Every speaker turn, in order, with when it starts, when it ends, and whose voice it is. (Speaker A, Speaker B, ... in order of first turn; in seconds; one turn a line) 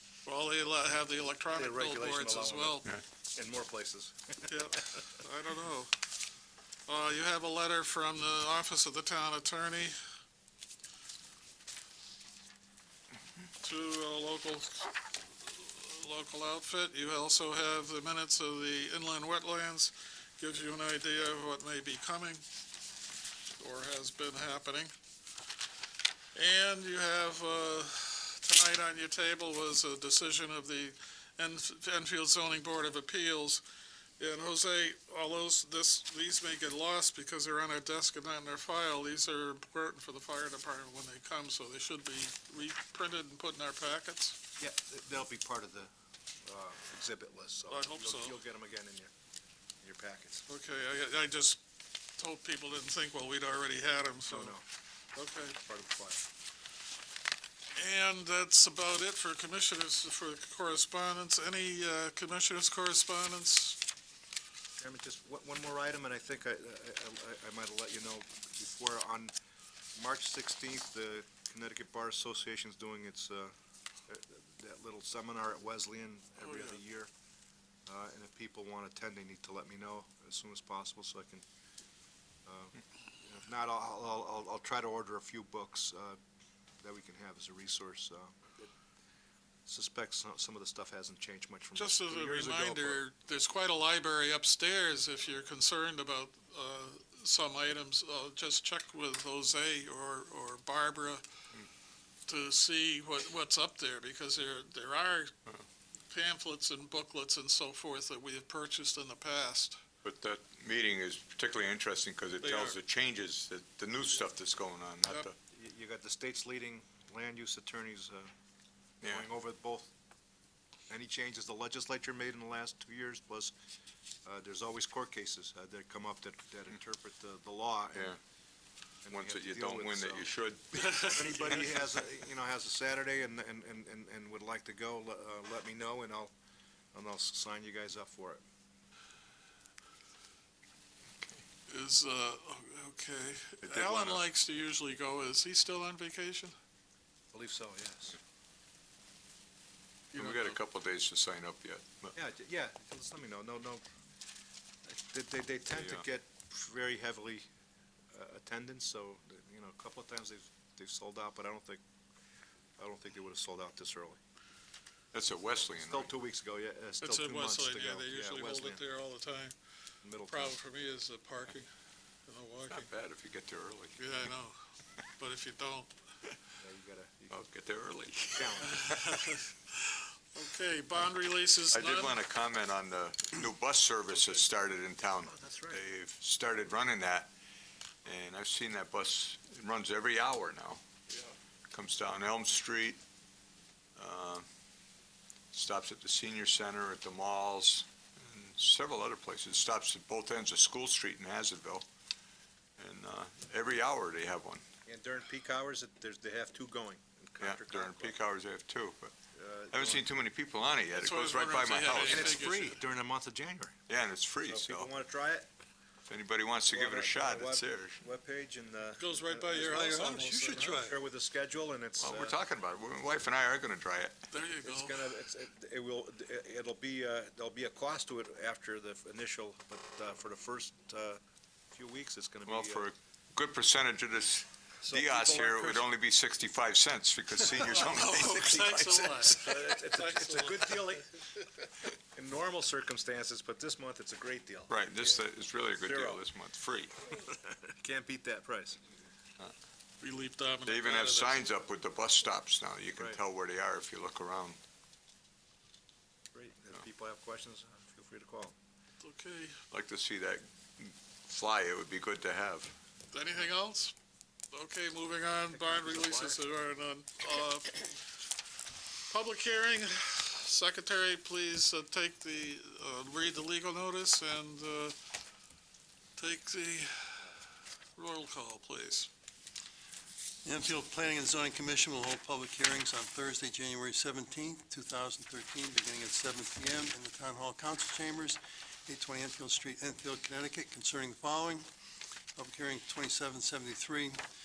Speaker A: 0.2-2.9
Speaker B: 1.5-5.0
Speaker A: 4.5-5.9
Speaker A: 6.9-10.0
Speaker A: 13.6-22.4
Speaker A: 23.6-24.9
Speaker A: 26.4-33.6
Speaker A: 34.2-44.4
Speaker B: 44.6-45.9
Speaker B: 46.5-49.1
Speaker A: 47.7-48.4
Speaker B: 49.8-50.5
Speaker A: 50.5-51.6
Speaker A: 52.2-54.5
Speaker B: 54.3-54.6
Speaker A: 55.1-55.5
Speaker B: 55.5-56.2
Speaker A: 57.8-63.8
Speaker B: 64.8-69.3
Speaker B: 70.0-73.5
Speaker B: 74.1-77.1
Speaker A: 76.4-76.8
Speaker B: 77.9-81.4
Speaker B: 82.5-86.2
Speaker B: 86.8-88.4
Speaker B: 89.7-93.0
Speaker A: 91.8-101.2
Speaker A: 102.3-105.3
Speaker A: 106.1-109.8
Speaker C: 110.0-115.4
Speaker A: 112.4-112.8
Speaker B: 115.5-118.3
Speaker C: 119.0-119.3
Speaker B: 119.0-119.9
Speaker B: 120.9-123.5
Speaker B: 124.2-128.2
Speaker B: 129.1-136.3
Speaker C: 129.1-131.4
Speaker B: 136.9-138.4
Speaker A: 141.7-146.5
Speaker C: 143.6-144.2
Speaker B: 147.3-148.2
Speaker C: 150.1-152.1
Speaker A: 150.1-150.6
Speaker B: 152.1-153.8
Speaker B: 154.9-157.5
Speaker C: 155.7-156.0
Speaker B: 158.1-161.8
Speaker B: 162.8-164.2
Speaker C: 165.1-166.1
Speaker B: 165.8-168.8
Speaker A: 167.0-169.6
Speaker B: 170.0-170.6
Speaker A: 170.3-171.7
Speaker A: 172.3-172.9
Speaker C: 172.7-174.0
Speaker A: 174.0-174.6
Speaker A: 175.2-175.9
Speaker B: 176.6-177.4
Speaker C: 177.3-179.2
Speaker B: 178.3-178.9
Speaker A: 178.7-182.2
Speaker C: 181.7-187.3
Speaker B: 185.2-185.8
Speaker C: 188.1-190.8
Speaker C: 191.7-193.0
Speaker C: 194.0-194.5
Speaker C: 195.5-201.9
Speaker C: 202.8-204.7
Speaker B: 204.9-208.2
Speaker C: 207.4-209.1
Speaker B: 209.3-210.1
Speaker C: 209.7-212.5
Speaker A: 211.0-212.8
Speaker B: 211.9-213.7
Speaker C: 213.9-214.9
Speaker B: 214.4-215.5
Speaker C: 216.1-218.0
Speaker B: 216.7-222.4
Speaker A: 219.0-220.9
Speaker D: 220.2-220.8
Speaker C: 222.0-224.2
Speaker A: 224.3-225.0
Speaker B: 224.6-231.2
Speaker B: 231.7-232.9
Speaker C: 232.5-239.1
Speaker B: 234.8-235.9
Speaker B: 237.6-241.2
Speaker A: 237.7-241.0
Speaker B: 242.1-245.2
Speaker C: 244.7-246.9
Speaker B: 245.8-246.2
Speaker B: 247.1-248.8
Speaker A: 250.0-251.4
Speaker C: 250.7-254.6
Speaker B: 252.9-253.2
Speaker B: 256.3-258.6
Speaker A: 259.0-259.6
Speaker C: 259.7-262.8
Speaker A: 263.1-263.9
Speaker A: 264.5-267.9
Speaker B: 265.5-266.4
Speaker A: 269.1-274.9
Speaker A: 276.2-277.3
Speaker A: 278.0-279.1
Speaker D: 280.4-291.7
Speaker D: 292.4-294.2